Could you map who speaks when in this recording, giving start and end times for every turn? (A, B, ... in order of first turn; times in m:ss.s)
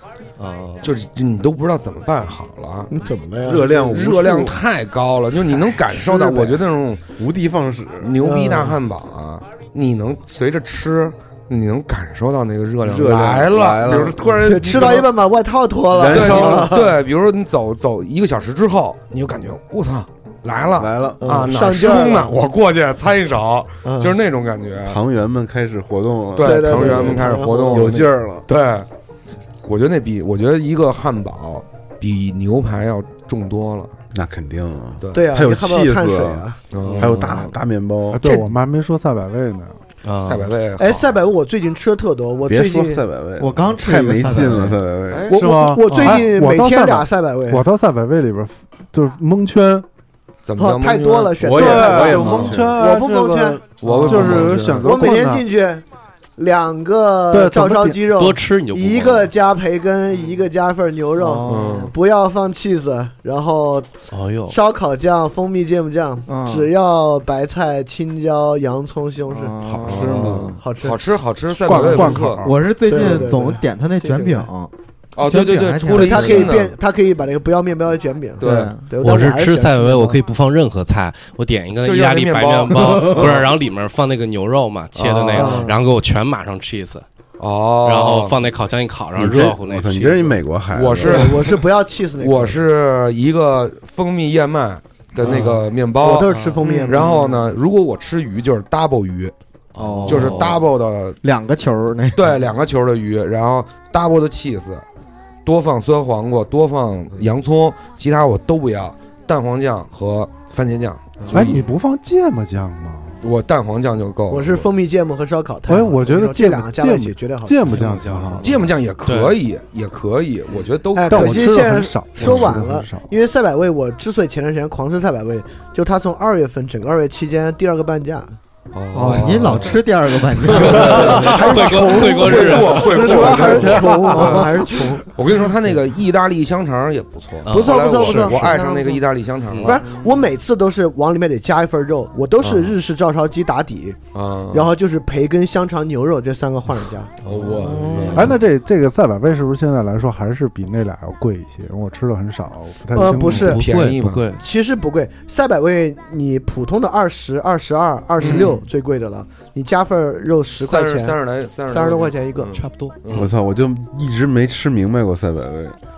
0:00.4-0:00.9 A
0:00.8-0:02.9 B
0:02.9-0:04.6 C
0:03.4-0:04.5 D
0:03.6-0:07.0 B
0:05.4-0:06.6 C
0:07.2-0:08.1 D
0:08.0-0:15.1 B
0:08.2-0:08.8 C
0:12.8-0:14.4 D
0:14.4-0:17.0 C
0:15.9-0:16.8 D
0:16.0-0:25.0 B
0:20.8-0:21.2 D
0:21.2-0:22.4 C
0:23.8-0:24.2 C
0:24.8-0:28.5 D
0:26.4-0:28.9 B
0:26.4-0:28.0 C
0:29.6-0:33.9 B
0:34.1-0:36.5 D
0:35.0-0:35.3 B
0:35.1-0:36.6 C
0:36.7-0:37.5 B
0:36.8-0:37.5 A
0:37.0-0:38.2 D
0:38.1-0:39.8 E
0:38.2-0:38.5 B
0:40.0-0:40.5 A
0:40.2-0:41.2 B
0:40.8-0:43.0 C
0:42.5-0:45.3 D
0:43.4-0:45.3 F
0:45.3-0:47.6 C
0:45.3-0:49.9 E
0:45.8-0:46.3 F
0:50.4-0:52.6 B
0:50.6-0:55.8 C
0:51.4-0:52.8 D
0:51.6-0:55.4 E
0:53.8-0:54.9 B
0:56.4-1:03.9 C
0:57.3-0:58.0 E
0:58.1-0:59.3 A
1:01.2-1:01.8 F
1:01.5-1:01.9 B
1:04.1-1:04.6 A
1:04.5-1:09.6 C
1:06.3-1:06.7 F
1:09.3-1:10.4 F
1:09.6-1:10.5 D
1:09.9-1:12.4 B
1:10.6-1:11.0 C
1:11.6-1:12.6 E
1:11.7-1:12.0 C
1:11.8-1:14.7 F
1:12.9-1:14.5 C
1:15.2-1:16.7 B
1:15.3-1:16.6 F
1:15.9-1:20.2 C
1:18.4-1:18.7 B
1:18.4-1:18.9 F
1:19.0-1:27.0 A
1:21.8-1:23.5 B
1:25.0-1:25.7 B
1:25.3-1:25.8 C
1:27.4-1:28.4 B
1:27.8-1:30.4 A
1:29.2-1:31.3 D
1:30.7-1:31.6 B
1:31.0-1:32.6 C
1:32.2-1:36.3 B
1:35.2-1:37.5 C
1:36.3-1:36.6 A
1:36.6-1:37.1 F
1:36.8-1:39.3 B
1:39.7-1:40.6 A
1:39.8-1:40.7 F
1:40.1-1:41.2 B
1:41.2-1:42.4 F
1:42.2-1:44.8 B
1:45.4-1:51.7 B
1:51.3-1:53.2 E
1:51.4-1:51.6 A
1:53.2-1:54.7 B
1:54.3-1:57.9 C
1:55.7-1:58.5 E
1:57.7-1:59.4 A
1:58.4-2:01.6 B
2:01.0-2:08.4 C
2:01.1-2:03.1 E
2:02.2-2:02.6 B
2:08.7-2:09.9 B
2:08.9-2:11.8 F
2:10.4-2:14.5 B
2:10.5-2:13.7 A
2:10.6-2:15.1 C
2:10.7-2:11.2 E
2:12.9-2:15.1 F
2:13.0-2:14.3 E
2:15.0-2:19.8 B
2:17.5-2:18.5 A
2:17.5-2:19.1 C
2:19.5-2:19.8 A
2:19.6-2:27.1 C
2:19.8-2:20.2 F
2:24.1-2:24.7 B
2:27.2-2:28.3 B
2:27.2-2:28.4 A
2:27.4-2:28.2 F
2:28.1-2:33.5 E
2:32.9-2:33.7 C
2:33.0-2:34.4 A
2:33.3-2:34.3 B
2:34.4-2:42.5 C
2:38.2-2:38.6 B
2:38.2-2:38.6 A
2:40.6-2:43.3 B
2:42.6-2:43.3 A
2:43.1-2:45.8 D